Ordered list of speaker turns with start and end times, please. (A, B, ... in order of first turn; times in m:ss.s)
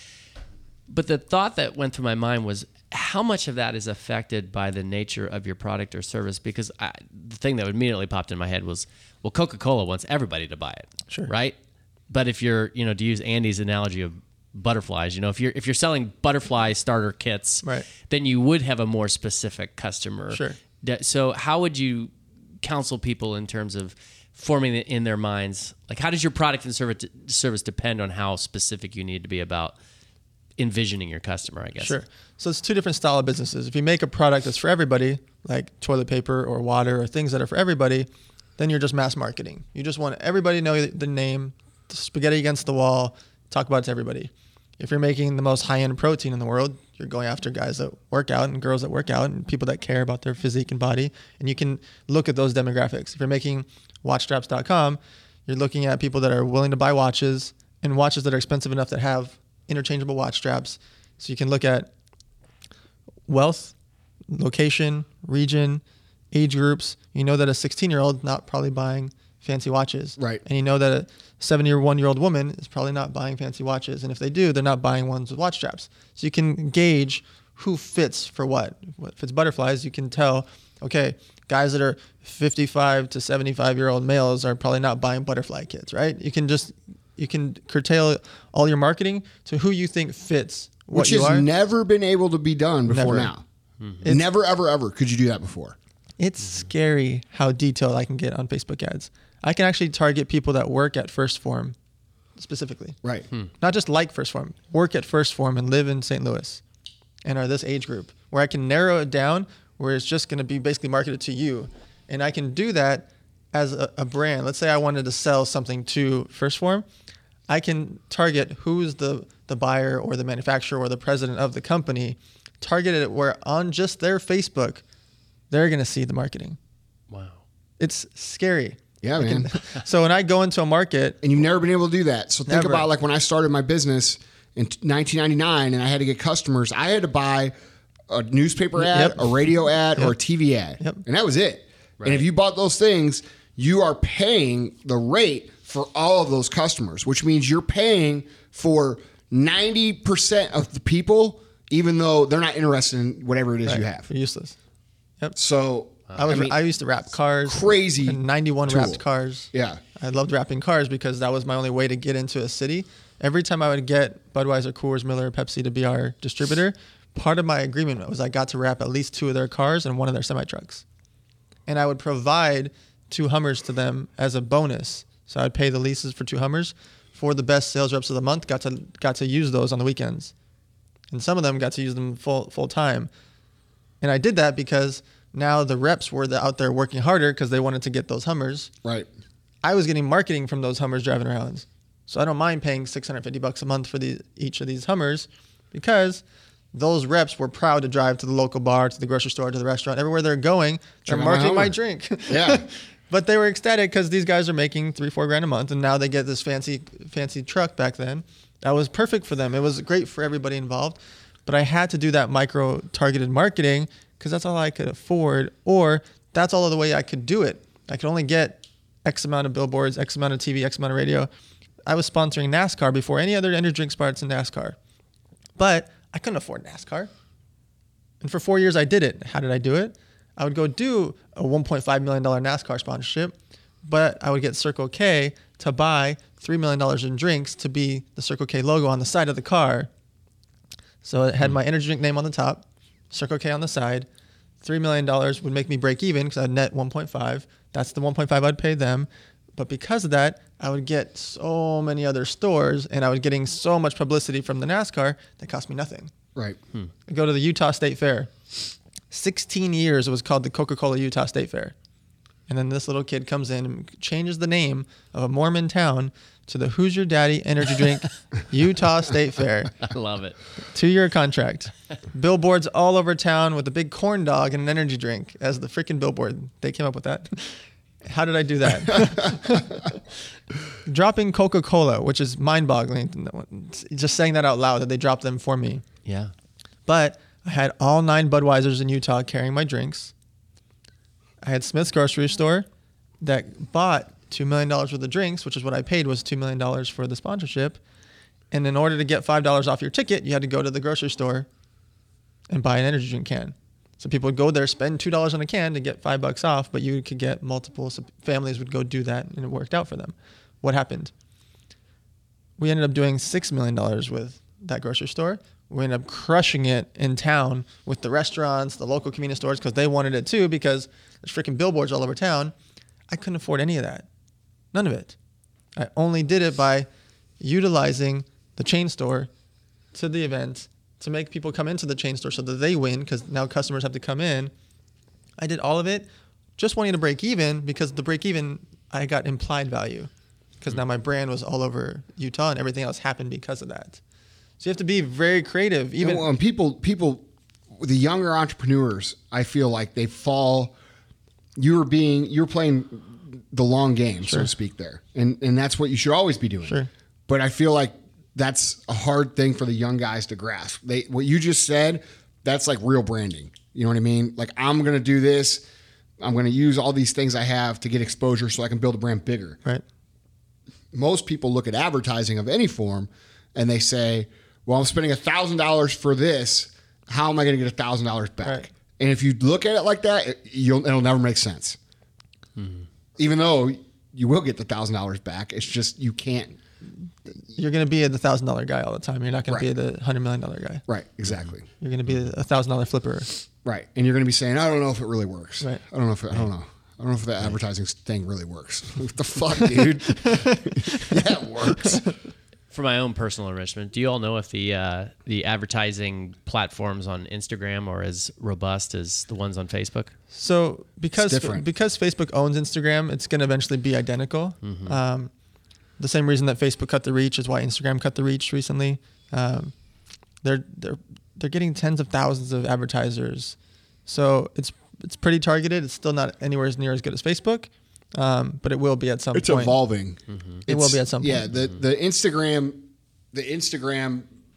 0:00.9-0:11.6 A
0:12.1-0:29.8 A
0:20.3-0:20.6 B
0:30.6-0:32.0 A
0:31.8-1:01.9 B
1:03.3-1:03.7 B
1:04.3-1:31.4 B
1:10.2-1:10.4 C
1:30.9-1:33.4 C
1:32.9-1:33.3 B
1:34.0-1:35.8 C
1:36.2-1:41.7 B
1:42.4-1:43.0 B
1:43.6-1:46.6 B
1:47.2-1:56.8 B
1:57.5-2:04.8 B
2:05.5-2:06.6 B
2:07.1-2:07.4 A
2:07.8-2:11.2 B
2:09.0-2:09.5 C
2:11.2-2:17.5 C
2:12.5-2:12.8 B
2:18.1-2:34.1 C
2:18.8-2:19.3 B
2:22.0-2:22.2 A
2:33.6-2:34.6 B
2:35.4-2:36.6 C
2:36.1-2:36.4 A
2:36.1-2:50.8 B
2:37.5-2:39.0 C
2:39.5-2:39.8 C
2:51.7-3:00.3 B
3:01.1-3:03.1 B
3:04.0-3:08.7 B
3:09.6-3:16.2 B
3:16.7-3:41.3 B
3:21.0-3:21.7 C
3:22.3-3:22.6 C
3:41.8-3:44.8 B
3:45.6-3:47.1 B
3:48.2-3:59.9 B
4:01.0-4:04.1 B
4:04.6-4:16.1 B
4:17.1-4:18.3 B
4:19.1-4:21.7 B
4:22.5-4:29.7 B
4:29.8-4:30.4 A
4:30.7-4:40.0 B
4:39.0-4:39.3 C
4:40.8-4:45.8 B
4:46.0-4:46.3 A
4:46.8-4:50.1 B
4:51.4-4:52.7 B
4:53.2-4:57.8 B
4:58.5-5:01.5 B
5:02.5-5:11.1 B
5:12.6-5:22.5 B
5:23.1-5:24.1 B
5:24.7-5:25.1 B
5:25.8-5:26.9 B
5:27.4-5:29.3 B
5:29.9-5:34.5 B
5:35.4-5:44.0 B
5:44.6-5:46.2 B
5:46.0-5:47.2 C
5:47.8-5:50.7 C
5:51.6-6:05.6 C
6:06.2-6:09.6 C
6:10.9-6:21.8 C
6:22.6-6:22.8 A
6:23.2-6:26.6 C
6:27.5-6:30.8 B
6:30.9-6:31.6 C
6:31.8-6:33.4 B
6:33.6-6:42.0 C
6:40.2-6:41.2 B
6:41.8-6:42.1 B
6:42.7-6:50.1 A
6:50.3-6:55.3 B
6:51.2-6:51.6 C
6:54.6-6:55.0 A
6:56.0-6:59.7 B
7:00.4-7:09.8 B
7:09.3-7:14.3 C
7:10.3-7:10.6 A
7:10.7-7:11.5 B